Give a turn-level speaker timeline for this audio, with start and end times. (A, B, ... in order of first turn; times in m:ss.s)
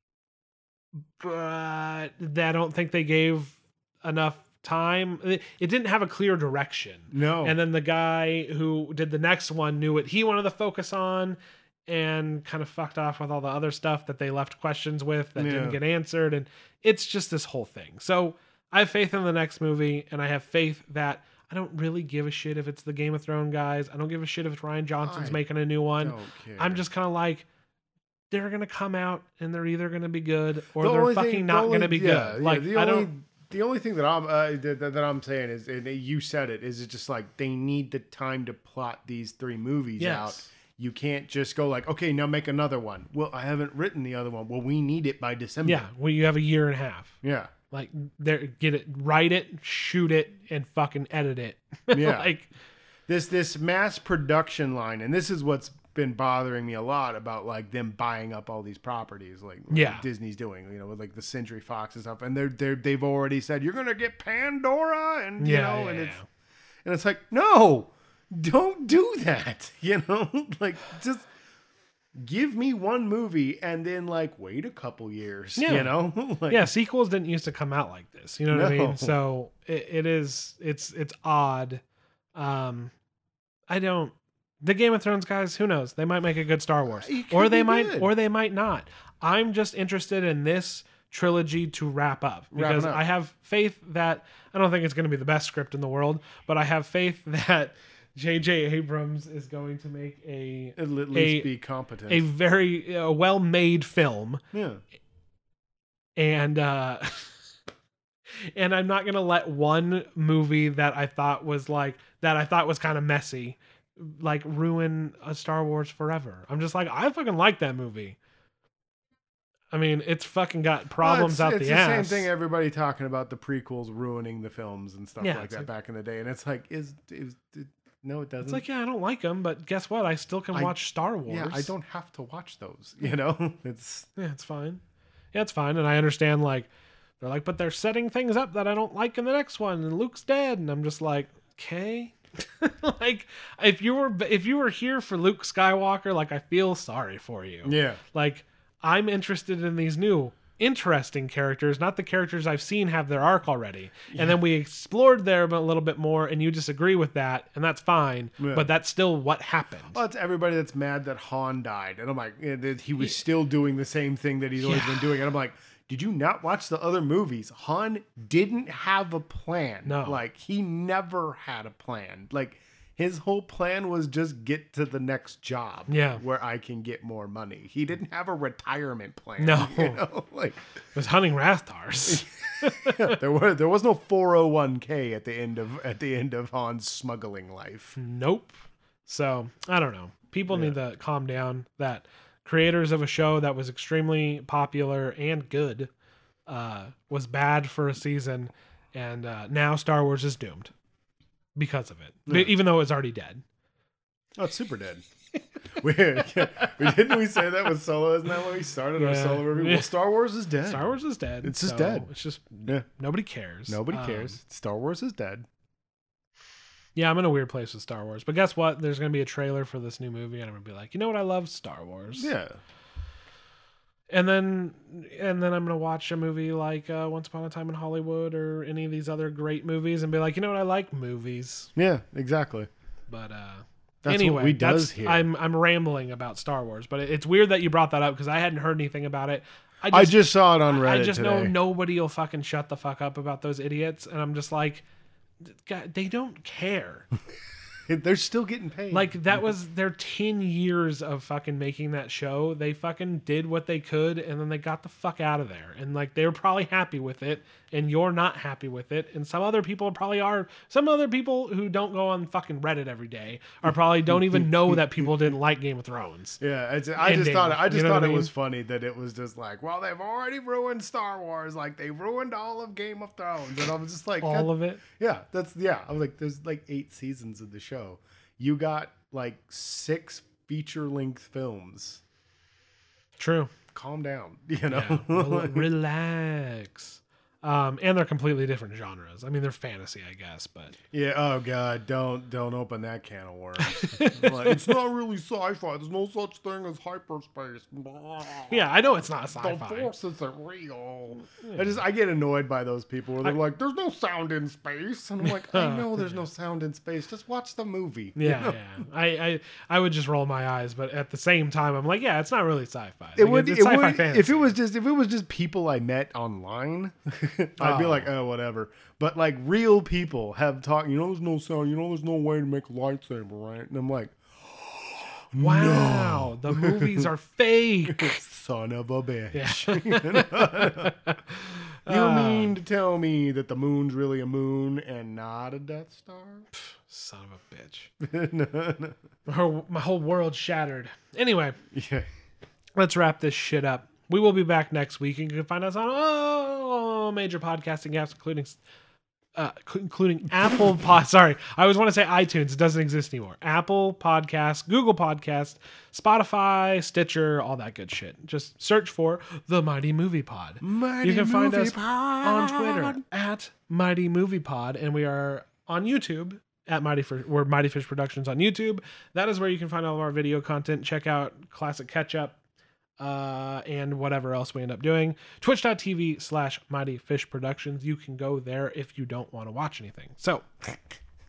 0:01.2-0:27.5 A
0:07.1-0:07.6 B
0:15.4-0:15.8 B
0:25.0-0:25.4 B
0:26.0-0:26.8 B
0:28.3-0:33.1 A
0:30.8-0:45.8 B
0:40.0-0:40.5 A
0:45.6-0:47.1 A
0:47.2-0:47.5 B
0:47.7-0:52.5 A
0:51.9-0:52.3 B
0:53.1-1:06.2 B
0:59.7-1:00.0 A
1:05.4-1:06.2 A
1:06.8-1:11.3 B
1:12.2-1:16.7 B
1:15.6-1:15.9 A
1:16.5-1:21.8 A
1:18.5-1:19.2 B
1:22.4-1:22.9 A
1:23.7-1:41.5 A
1:27.0-1:28.1 B
1:32.5-1:33.0 B
1:40.8-1:42.3 B
1:42.1-1:44.4 A
1:44.5-1:44.8 B
1:46.2-1:47.3 A
1:48.5-1:58.2 A
1:59.7-2:02.3 A
2:01.0-2:08.6 B
2:05.2-2:05.7 A
2:08.4-2:11.7 A
2:10.5-2:14.1 B
2:14.2-2:14.8 A
2:15.3-2:16.7 A
2:17.2-2:40.0 A
2:27.6-2:28.0 B
2:34.1-2:34.4 B
2:38.4-2:38.7 B
2:39.9-3:00.6 B
2:44.6-2:45.1 A
2:49.8-2:50.2 A
2:55.9-2:56.2 A
2:59.4-3:00.0 A
3:01.0-3:03.2 A
3:02.1-3:08.0 B
3:08.0-3:15.9 A
3:10.5-3:10.8 B
3:16.5-3:20.7 A
3:21.6-3:23.4 A
3:22.3-3:22.5 B
3:24.4-3:25.0 B
3:25.8-3:32.1 B
3:26.4-3:27.1 A
3:29.0-3:29.9 A
3:30.7-3:34.4 A
3:33.7-3:35.5 B
3:37.0-3:42.3 A
3:42.2-3:42.6 B
3:44.1-3:51.7 A
3:51.8-3:52.7 B
3:53.1-4:04.8 A
3:54.0-3:55.3 B
3:59.9-4:01.5 B
4:05.4-4:07.1 A
4:07.9-4:09.5 B
4:08.9-4:26.4 A
4:23.7-4:25.4 B
4:26.4-4:42.0 B
4:27.0-4:28.3 A
4:34.2-4:34.8 A
4:43.2-4:43.5 A
4:43.7-4:45.7 B
4:44.7-4:50.8 A
4:50.9-5:08.6 B
4:53.6-4:54.8 A
4:58.5-4:59.9 A
5:01.4-5:01.8 A
5:05.2-5:06.2 A
5:08.2-5:14.5 A
5:13.2-5:27.1 B
5:17.6-5:18.1 A
5:25.4-5:28.2 A
5:27.9-5:30.9 B
5:29.3-5:32.6 A
5:31.9-5:36.5 B
5:36.6-5:37.9 A
5:38.0-5:39.0 B
5:39.3-5:41.6 A
5:41.7-5:42.1 B
5:42.8-5:48.6 A
5:49.4-6:12.4 A
6:00.6-6:03.0 B
6:13.0-6:20.8 A